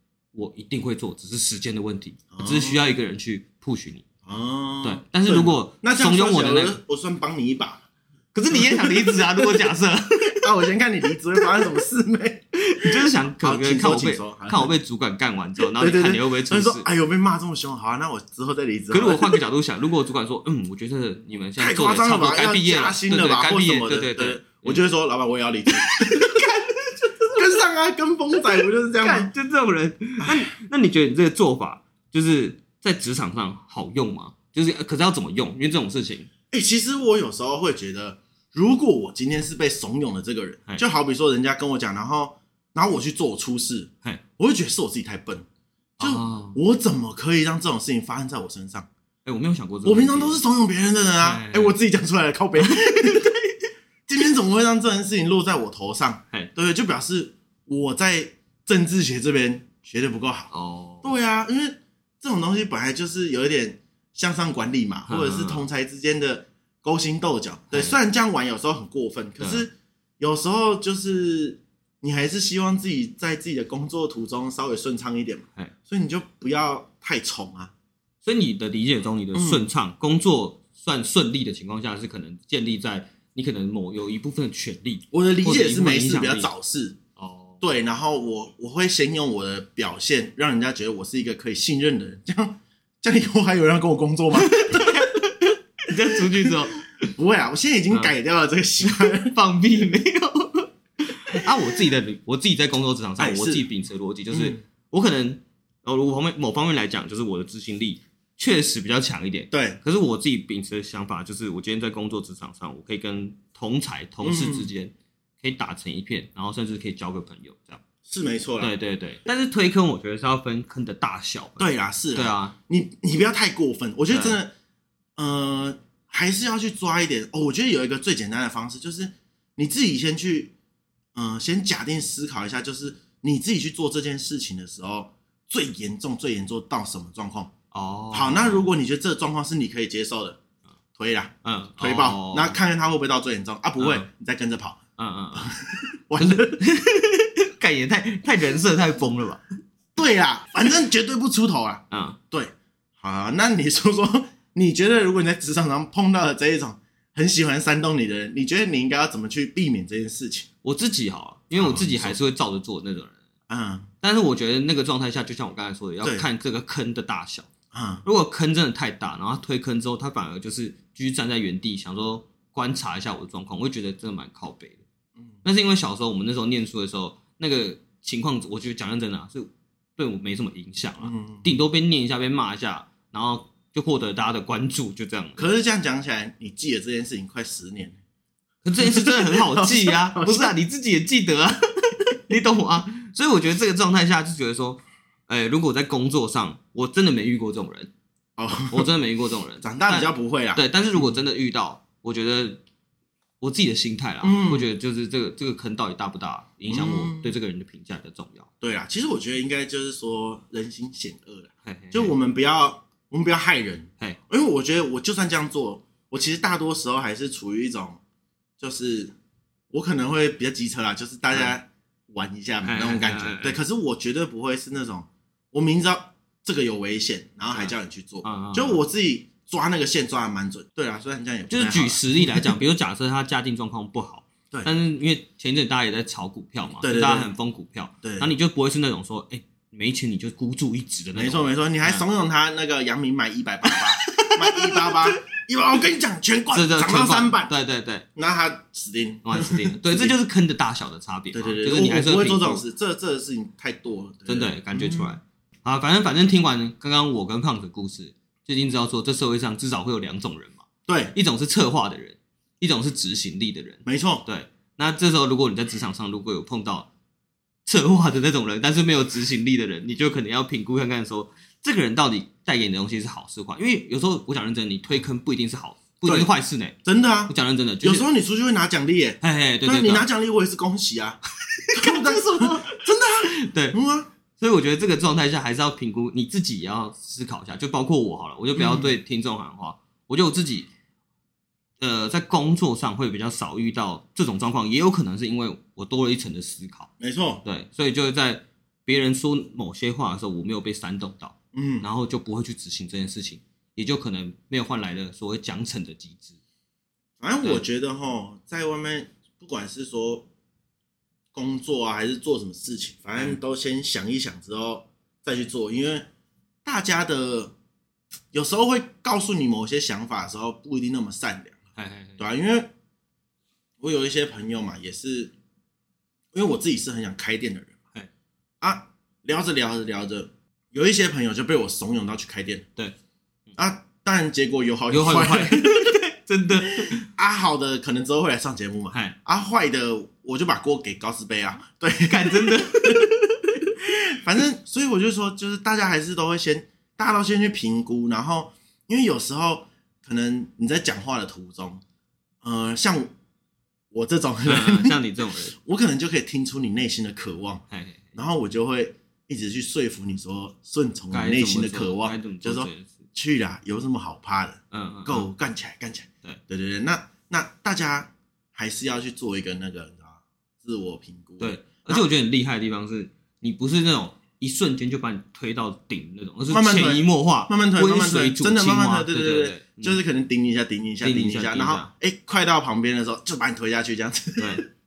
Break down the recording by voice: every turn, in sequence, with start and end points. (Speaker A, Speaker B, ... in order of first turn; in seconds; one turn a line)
Speaker A: 0.3-4.0
Speaker B: 2.3-2.9
Speaker B: 4.2-7.8
Speaker A: 4.8-6.8
Speaker A: 8.3-10.4
Speaker B: 8.5-9.7
Speaker B: 10.3-14.8
Speaker A: 12.7-16.8
Speaker B: 15.6-19.4
Speaker A: 18.9-24.8
Speaker B: 21.6-26.5
Speaker A: 26.0-27.1
Speaker B: 27.3-29.3
Speaker A: 29.0-36.3
Speaker B: 30.2-30.5
Speaker B: 36.5-45.5
Speaker A: 46.0-46.6
Speaker B: 46.0-48.9
Speaker A: 49.2-50.4
Speaker B: 49.8-53.4
Speaker A: 51.2-51.8
Speaker A: 52.6-53.3
Speaker B: 54.1-60.5
Speaker A: 60.5-61.1
Speaker B: 61.0-77.7
Speaker A: 65.0-65.7
Speaker A: 69.4-69.7
Speaker A: 78.2-86.5
Speaker B: 79.3-79.7
Speaker B: 85.1-87.0
Speaker A: 87.2-87.6
Speaker B: 87.6-95.1
Speaker A: 94.3-97.1
Speaker B: 97.2-99.3
Speaker A: 98.8-100.7
Speaker A: 101.2-117.8
Speaker B: 103.2-103.7
Speaker B: 104.3-104.6
Speaker B: 109.5-109.8
Speaker B: 114.2-114.7
Speaker B: 118.0-118.7
Speaker A: 118.6-122.5
Speaker B: 121.6-124.5
Speaker A: 124.1-124.4
Speaker B: 125.2-130.5
Speaker B: 131.1-137.5
Speaker A: 137.7-138.7
Speaker B: 138.1-140.4
Speaker B: 141.0-144.8
Speaker A: 141.4-142.6
Speaker A: 143.8-144.1
Speaker A: 145.0-145.5
Speaker B: 145.3-146.6
Speaker A: 146.2-149.4
Speaker B: 149.9-160.5
Speaker A: 151.9-152.2
Speaker A: 160.6-163.2
Speaker B: 161.5-162.2
Speaker B: 163.5-163.9
Speaker A: 164.0-167.5
Speaker B: 167.7-168.0
Speaker A: 168.0-174.8
Speaker B: 175.2-175.4
Speaker A: 175.4-185.5
Speaker B: 181.0-181.6
Speaker B: 185.4-188.0
Speaker A: 188.6-197.9
Speaker B: 188.8-190.5
Speaker B: 198.4-198.9
Speaker A: 198.7-202.6
Speaker B: 199.6-201.1
Speaker A: 203.4-208.5
Speaker B: 204.2-204.7
Speaker B: 206.7-207.3
Speaker B: 208.6-218.0
Speaker A: 211.6-212.1
Speaker B: 218.6-219.1
Speaker B: 219.7-232.5
Speaker A: 221.3-221.5
Speaker A: 222.6-223.6
Speaker A: 227.5-228.8
Speaker A: 231.5-242.0
Speaker B: 236.8-237.3
Speaker B: 238.0-238.3
Speaker B: 241.1-247.5
Speaker A: 244.0-245.2
Speaker A: 246.5-248.1
Speaker B: 248.2-250.2
Speaker A: 249.2-252.6
Speaker B: 251.3-255.1
Speaker A: 254.3-266.9
Speaker B: 260.9-261.1
Speaker B: 263.9-264.2
Speaker A: 267.6-276.8
Speaker B: 276.0-276.3
Speaker B: 276.8-281.2
Speaker A: 277.3-278.0
Speaker A: 279.2-280.1
Speaker B: 281.7-284.1
Speaker A: 281.9-282.5
Speaker A: 283.3-283.8
Speaker A: 284.4-290.7
Speaker B: 288.5-288.9
Speaker A: 291.8-296.9
Speaker B: 297.0-297.4
Speaker A: 297.4-306.4
Speaker B: 301.5-301.9
Speaker B: 307.2-310.3
Speaker B: 311.3-316.1
Speaker B: 316.6-317.5
Speaker B: 318.3-321.6
Speaker A: 321.8-322.2
Speaker B: 322.2-322.7
Speaker B: 323.8-325.3
Speaker B: 326.3-327.8
Speaker B: 328.6-332.6
Speaker B: 333.6-335.9
Speaker A: 334.9-337.0
Speaker B: 336.9-343.0
Speaker A: 338.9-339.1
Speaker A: 342.0-343.6
Speaker B: 344.1-351.8
Speaker B: 352.4-353.1
Speaker B: 353.9-355.0
Speaker A: 354.4-355.6
Speaker B: 355.6-357.6
Speaker A: 357.7-358.0
Speaker B: 358.1-372.1
Speaker A: 361.1-363.0
Speaker A: 364.7-365.3
Speaker A: 371.4-380.0
Speaker B: 376.5-384.6
Speaker A: 381.0-381.9
Speaker A: 384.4-384.7